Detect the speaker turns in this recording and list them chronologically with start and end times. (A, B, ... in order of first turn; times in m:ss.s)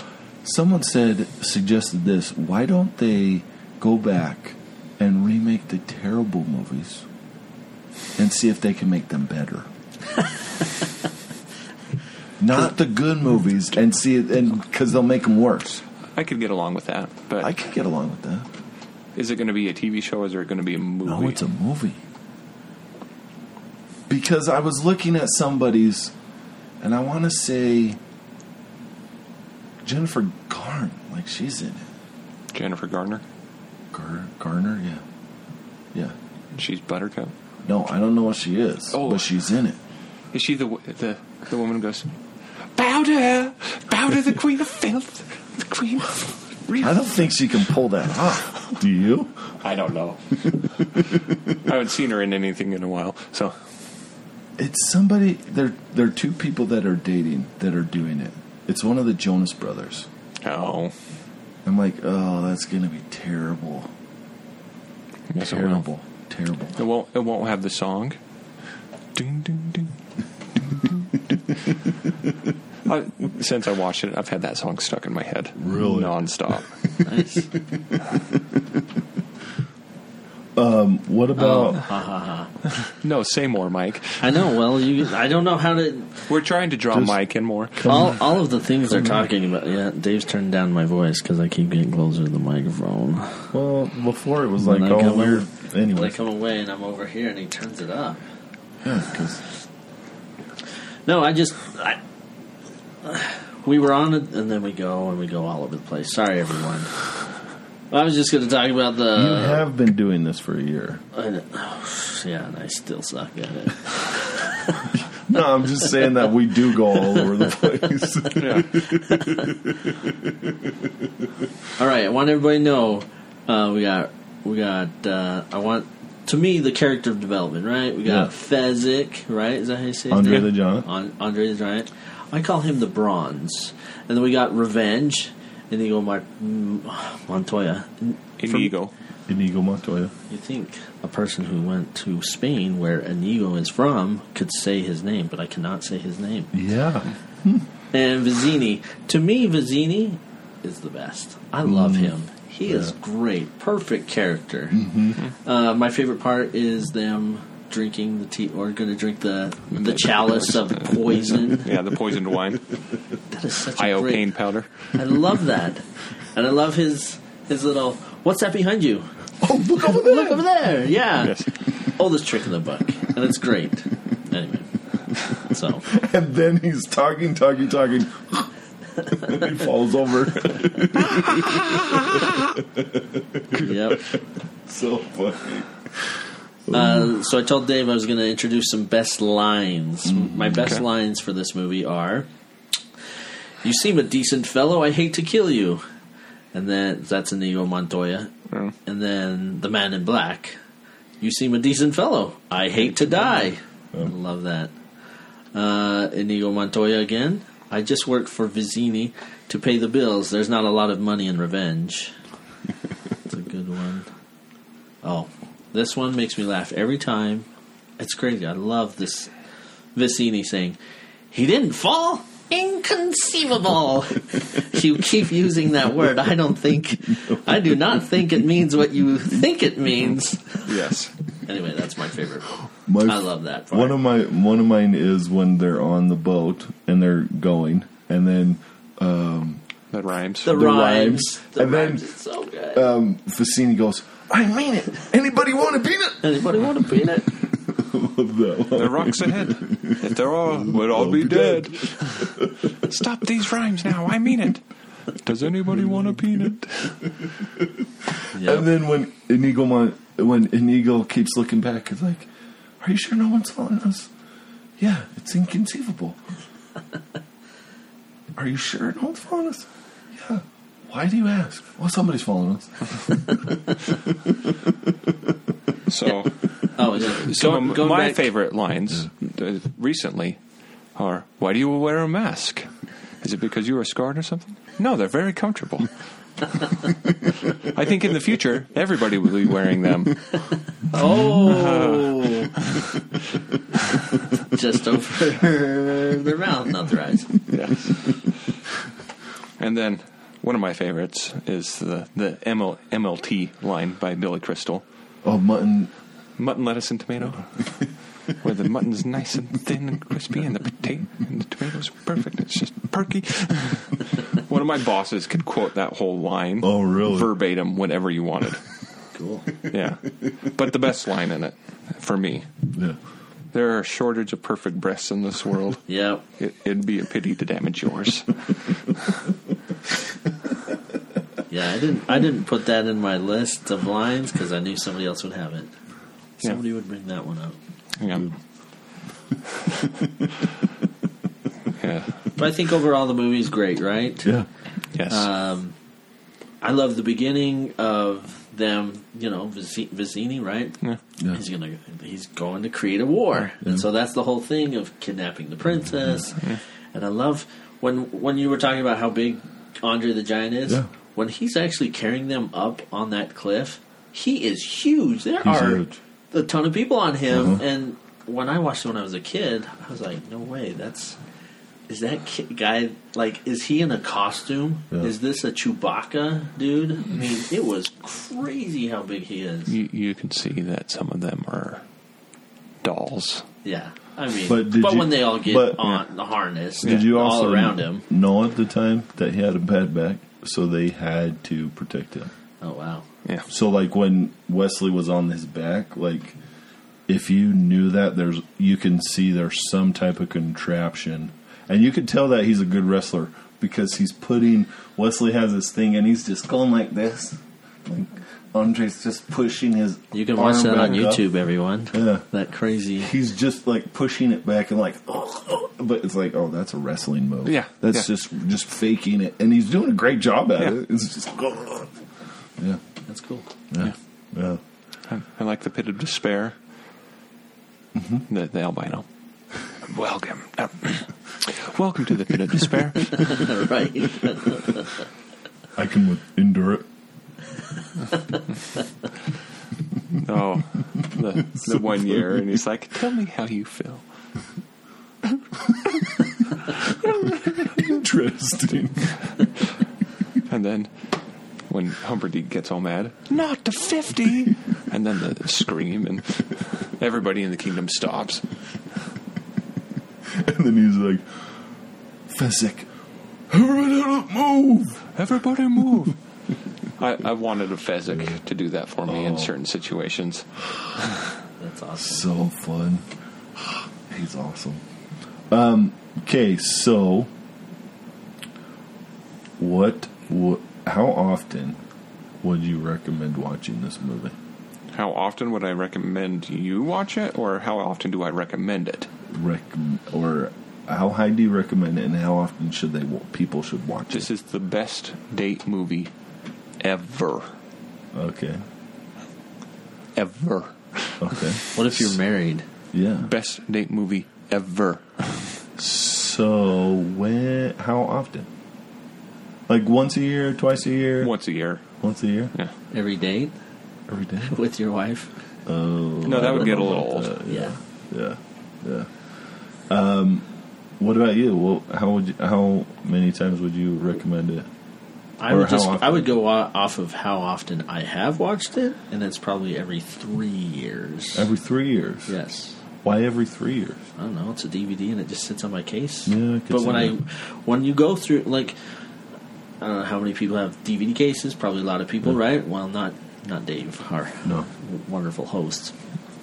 0:00.4-0:07.1 A
0:08.2-0:09.7 A
0:12.4-0:15.8 A
0:16.2-0:17.5 B
0:17.4-0:18.5 A
0:19.2-0:21.4 B
0:21.0-0:22.0 A
0:24.1-0:26.1 A
0:26.8-0:28.0 A
0:29.8-0:31.9 A
0:32.5-0:33.2 B
0:33.9-0:35.0 A
0:36.6-0:37.3 B
0:37.6-0:39.8 A
0:38.9-0:39.2 B
0:40.3-0:42.1 B
0:42.8-0:46.9 B
0:46.8-0:49.5 A
0:49.6-0:50.5 B
0:51.6-0:53.6 B
0:54.6-1:00.1 A
1:00.4-1:00.9 B
1:01.6-1:03.9 A
1:05.3-1:05.8 B
1:05.4-1:06.8 A
1:06.8-1:08.2 B
1:09.2-1:10.0 B
1:10.8-1:11.1 B
1:12.8-1:16.7 B
1:15.6-1:16.2 A
1:16.8-1:17.1 A
1:17.0-1:17.5 C
1:17.7-1:18.6 A
1:20.6-1:21.9 A
1:21.4-1:22.5 C
1:23.0-1:24.4 B
1:24.2-1:26.3 C
1:26.3-1:28.1 B
1:26.9-1:27.2 A
1:27.8-1:28.2 A
1:27.9-1:33.5 C
1:33.5-1:36.2 A
1:34.6-1:38.2 C
1:38.8-1:39.4 A
1:41.1-1:42.0 C
1:43.0-1:47.0 C
1:47.9-1:49.6 C
1:49.1-1:51.0 A
1:51.1-1:54.7 C
1:54.9-2:00.7 A
1:56.8-1:57.9 C
1:58.4-1:58.7 B
1:58.8-1:59.5 C
2:01.8-2:18.7 C
2:08.1-2:08.3 A
2:10.1-2:10.9 A
2:18.4-2:18.9 B
2:19.3-2:20.1 A
2:20.3-2:26.5 C
2:26.5-2:27.7 A
2:27.9-2:41.7 C
2:31.6-2:32.2 A
2:32.7-2:33.0 A
2:34.7-2:35.2 A
2:39.7-2:42.6 B
2:43.3-2:49.1 C
2:43.8-2:44.7 B
2:49.4-2:50.5 A
2:49.6-2:54.7 C
2:51.2-2:51.5 B
2:55.4-2:56.0 C
2:55.9-2:58.5 A
2:59.1-3:05.9 A
3:03.5-3:04.1 C
3:06.7-3:07.2 A
3:06.7-3:12.3 C
3:10.0-3:10.8 A
3:13.6-3:15.8 C
3:16.5-3:18.3 C
3:18.8-3:20.5 C
3:21.2-3:24.7 C
3:25.5-3:32.2 C
3:33.3-3:34.1 C
3:35.0-3:37.5 C
3:38.0-3:39.3 C
3:40.0-3:40.8 C
3:41.3-3:50.8 C
3:50.7-3:51.1 B
3:51.5-3:54.0 C
3:52.9-3:59.6 A
3:59.9-4:00.5 B
4:00.4-4:02.9 C
4:00.4-4:02.1 A
4:02.7-4:12.7 A
4:06.2-4:07.3 C
4:08.7-4:14.6 B
4:15.2-4:17.0 B
4:18.1-4:22.3 A
4:18.3-4:18.7 C
4:22.8-4:24.1 A
4:24.8-4:26.2 A
4:28.4-4:35.1 A
4:35.9-4:40.4 B
4:36.7-4:38.3 C
4:41.0-4:42.7 B
4:43.2-4:45.9 B
4:47.7-4:50.2 B
4:50.9-4:52.5 C
4:51.0-4:51.6 A
4:51.4-4:52.7 B
4:54.1-4:57.5 C
4:57.5-4:58.0 B
4:59.6-5:04.8 B
5:05.2-5:05.9 A
5:06.4-5:07.5 B
5:08.4-5:18.6 B
5:16.6-5:17.3 A
5:19.1-5:19.6 C
5:19.7-5:22.5 B
5:23.5-5:25.9 B
5:25.9-5:26.2 C
5:26.4-5:28.4 B
5:31.5-5:35.7 C
5:36.4-5:37.6 C
5:38.0-5:38.3 B
5:41.8-5:42.2 B
5:42.4-5:44.4 C
5:44.9-5:45.2 B
5:45.1-5:45.7 C
5:46.6-6:11.2 C
5:53.6-5:53.9 A
6:05.4-6:06.0 A
6:07.3-6:07.6 A
6:11.9-6:19.8 C
6:19.7-6:21.8 B
6:22.8-6:23.5 B
6:23.6-6:28.1 C
6:24.5-6:25.9 A
6:26.8-6:32.3 A
6:32.6-6:33.1 C
6:33.5-6:36.4 A
6:37.1-6:51.3 A
6:50.1-6:53.1 C
6:51.9-6:52.3 A
6:53.0-7:02.0 A
6:57.4-6:58.1 B
7:03.1-7:03.5 C
7:03.7-7:04.6 A
7:05.1-7:06.6 B
7:08.0-7:08.3 A
7:08.3-7:09.0 B
7:09.9-7:13.5 B
7:13.1-7:14.9 C
7:15.8-7:16.9 A
7:20.2-7:24.0 B
7:21.6-7:22.0 A
7:26.5-7:29.5 A
7:30.5-7:30.9 B
7:31.7-7:38.4 B
7:40.3-7:41.6 A
7:42.3-7:42.9 A
7:43.5-7:45.1 A
7:45.1-7:46.2 B
7:47.0-7:50.5 B
7:48.1-7:48.4 A
7:49.1-7:49.5 A
7:51.6-7:52.3 C
7:52.0-7:53.1 A
7:54.0-7:54.8 A
7:55.5-7:57.3 A
7:59.6-8:01.8 A
8:02.4-8:04.4 A
8:04.9-8:09.1 B
8:09.3-8:14.3 A
8:14.1-8:16.1 B
8:16.8-8:17.5 B
8:18.1-8:18.6 A
8:20.2-8:22.0 B
8:21.2-8:21.6 A
8:21.8-8:22.7 C
8:22.9-8:23.3 A
8:23.2-8:25.5 B
8:25.8-8:28.5 A
8:29.7-8:31.4 A
8:31.2-8:31.8 B
8:31.9-8:32.5 A
8:32.9-8:33.6 C
8:34.1-8:34.6 A
8:34.5-8:35.3 C
8:35.7-8:39.3 A
8:36.2-8:37.4 B
8:36.5-8:37.8 C
8:39.9-8:44.7 A
8:45.4-8:51.5 C
8:45.5-8:46.3 A
8:51.4-8:52.4 A
8:52.3-8:52.8 C
8:53.0-8:54.0 A
8:54.2-8:58.8 C
8:56.3-8:57.2 A
8:59.8-9:05.9 C